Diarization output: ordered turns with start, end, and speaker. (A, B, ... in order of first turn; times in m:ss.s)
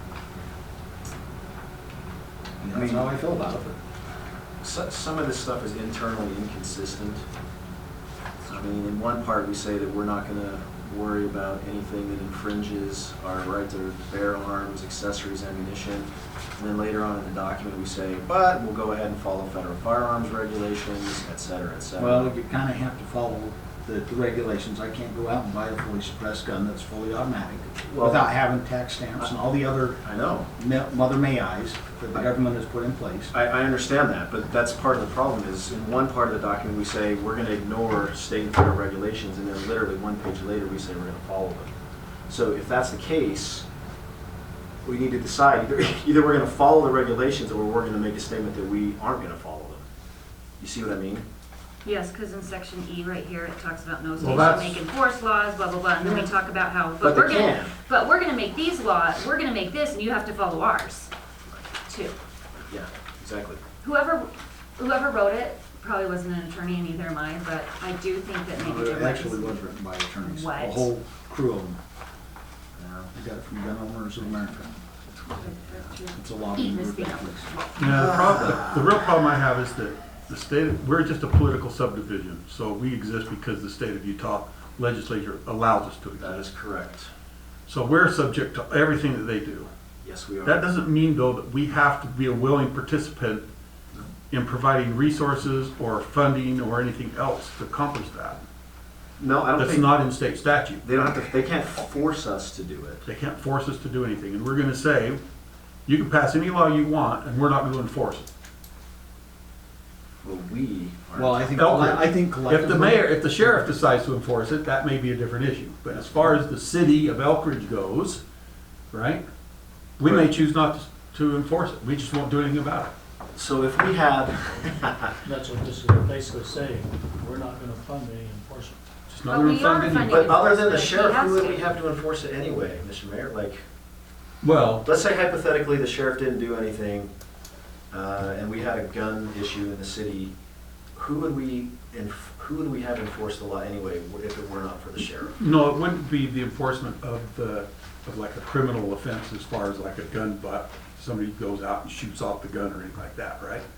0:02.6-0:03.8 A
0:02.7-0:03.1 B
0:04.6-0:07.2 B
0:08.5-0:22.3 B
0:22.0-0:30.0 A
0:27.9-0:28.3 B
0:30.0-0:30.5 B
0:30.6-0:33.3 A
0:33.3-0:41.7 B
0:42.3-0:43.7 B
0:44.8-0:49.9 B
0:50.6-0:51.2 B
0:51.8-1:01.1 C
0:54.2-0:54.8 D
0:56.0-0:56.3 B
0:57.0-0:57.7 B
1:01.9-1:02.2 C
1:02.7-1:03.6 B
1:03.8-1:10.9 C
1:08.6-1:11.8 A
1:12.8-1:13.1 B
1:13.1-1:14.7 A
1:15.2-1:17.9 C
1:16.1-1:17.6 A
1:17.8-1:26.5 D
1:17.9-1:18.8 B
1:26.2-1:27.1 B
1:27.7-1:29.7 D
1:30.0-1:30.7 B
1:30.4-1:33.5 D
1:34.3-1:38.5 D
1:39.2-1:39.9 B
1:39.6-1:40.8 D
1:40.8-1:43.0 B
1:43.0-1:45.2 D
1:45.9-1:48.3 D
1:50.2-1:51.5 B
1:51.2-1:53.7 A
1:51.6-1:58.2 D
1:55.9-1:56.2 B
1:58.9-1:59.2 D
2:00.0-2:02.9 D
2:03.4-2:05.1 B
2:05.2-2:08.8 E
2:09.1-2:10.2 D
2:09.2-2:11.6 C
2:10.0-2:13.6 B
2:14.4-2:14.8 D
2:14.8-2:17.1 B
2:17.9-2:20.3 B
2:21.0-2:25.3 B
2:25.4-2:33.6 D